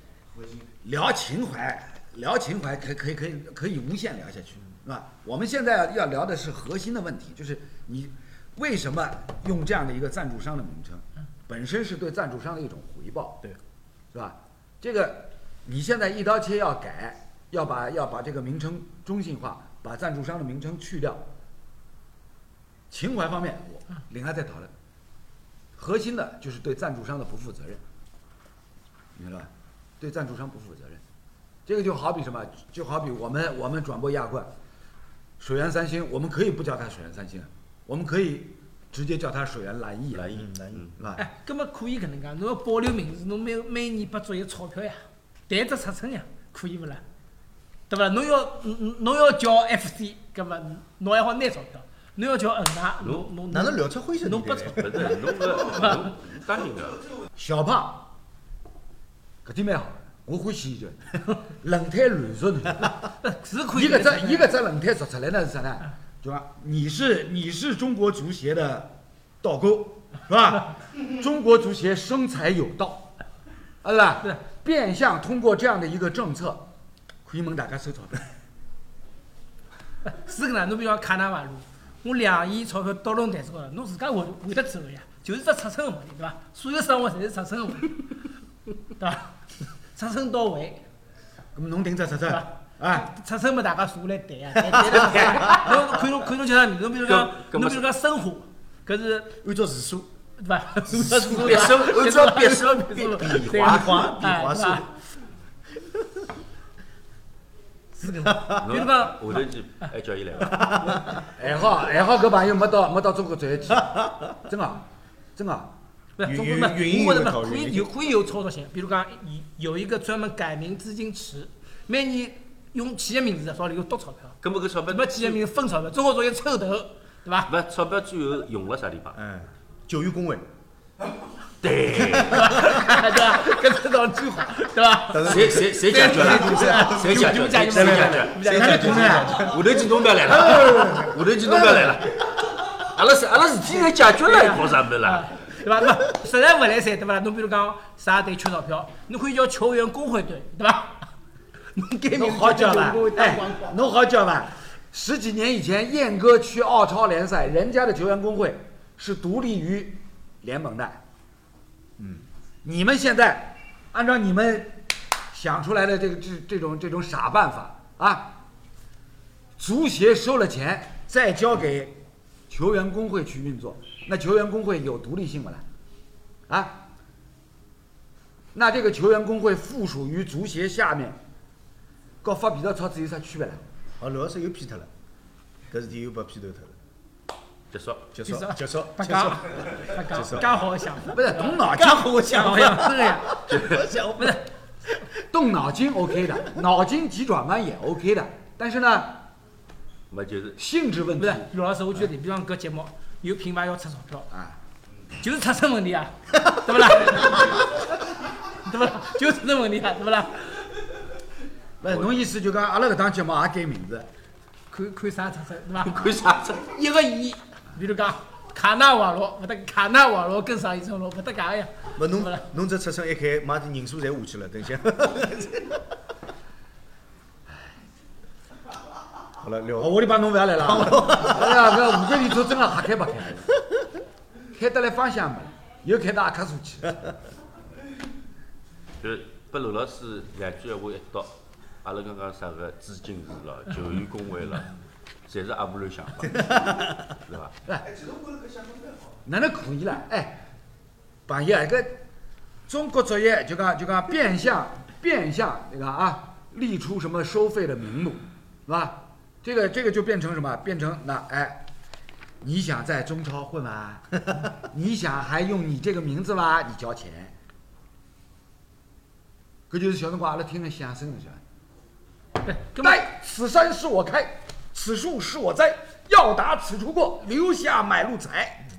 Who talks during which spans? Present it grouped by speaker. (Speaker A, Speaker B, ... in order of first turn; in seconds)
Speaker A: 0.8-13.4, 14.1-21.2, 22.9-24.7, 25.8-27.8, 29.1-29.5, 30.0-31.0, 31.7-34.5, 35.4-40.4, 41.0-41.2, 57.4-58.1, 59.5-63.1, 63.7-73.1, 73.8-76.7, 77.2-78.3, 91.5-93.1, 111.3-114.8, 115.4-115.7, 138.5-139.5, 140.3-140.9, 152.2-161.0, 162.6-168.4, 169.6-175.6, 176.5-176.8, 178.5-181.2, 182.2-183.7, 191.1-192.6, 195.3-199.3, 200.6-201.5, 204.3-204.6, 211.8-214.1, 229.8-233.5, 234.5-237.1, 249.2-250.4, 251.3-252.0, 252.7-261.6, 262.4-267.3, 269.7-271.4, 272.8-278.6
Speaker B: 40.1-40.9, 53.0-53.3, 54.8-57.1, 97.0-97.9, 101.2-104.0, 108.6-110.6, 124.4-125.4, 127.5-129.2, 131.6-132.8, 135.2-138.4, 139.2-145.3, 187.7-188.2, 193.5-193.9, 200.1-200.6, 215.8-216.8, 239.0-244.7, 245.3-247.5
Speaker C: 40.3-40.9, 53.5-55.0, 99.4-100.1, 100.9-101.9, 103.2-104.9, 108.0-108.9, 110.5-111.2, 116.2-117.9, 129.2-130.4, 135.1-139.8, 162.0-162.2, 184.0-184.9, 185.7-186.8, 188.1-190.6, 192.0-194.4, 222.0-225.8, 229.4-230.0, 230.6-232.0, 246.5-246.8
Speaker D: 41.2-47.0, 47.9-56.1, 63.2-64.5, 80.0-88.2, 89.0-89.3, 90.0-90.8, 92.3-99.4, 100.4-104.9, 108.2-109.8, 116.2-127.5, 132.2-139.6, 144.1-151.1, 151.7-153.8, 188.2-193.5, 194.2-194.5, 201.2-204.3, 205.2-210.7, 214.7-222.5, 272.4-273.0